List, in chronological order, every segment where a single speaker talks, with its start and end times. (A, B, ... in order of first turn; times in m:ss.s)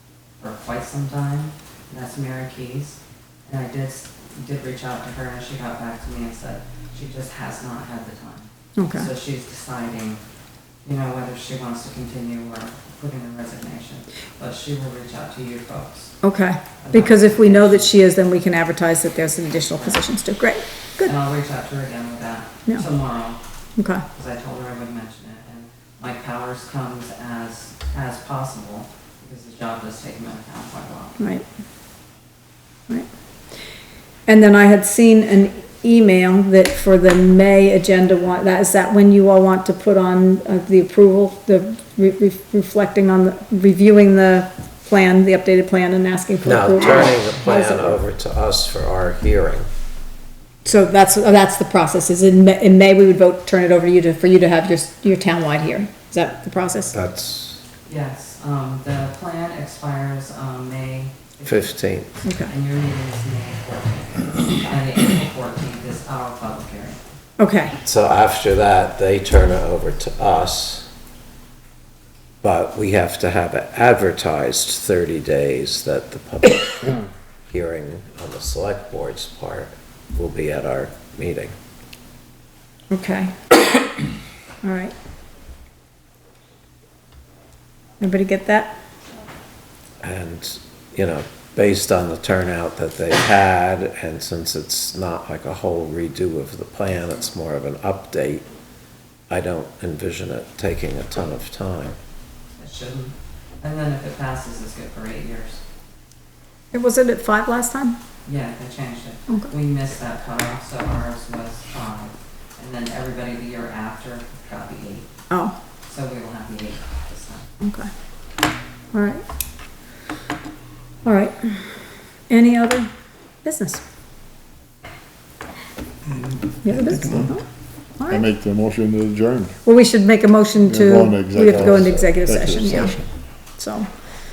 0:00.4-0:10.2 A
0:08.8-0:09.1 B
0:10.8-0:16.2 A
0:16.2-0:21.1 B
0:16.8-0:17.9 A
0:21.0-0:23.4 A
0:23.8-0:24.0 B
0:24.1-0:31.2 A
0:34.3-0:48.0 B
0:46.4-0:49.7 C
0:50.6-0:57.0 B
0:56.9-0:57.6 C
0:57.8-1:07.0 A
1:01.4-1:02.1 C
1:02.2-1:02.5 B
1:07.4-1:07.8 B
1:07.8-1:10.9 C
1:12.4-1:21.5 C
1:22.9-1:23.5 B
1:24.6-1:24.9 B
1:28.0-1:28.7 B
1:30.0-1:38.4 C
1:39.3-1:42.0 C
1:42.6-1:45.6 A
1:46.7-1:48.0 B
1:48.2-1:55.0 A
1:55.9-1:57.5 A
1:57.6-1:57.9 B
1:58.9-1:59.2 B
2:01.0-2:02.9 B
2:03.4-2:03.8 B
2:06.6-2:07.4 B
2:08.1-2:09.6 D
2:09.6-2:13.9 B
2:10.6-2:13.1 D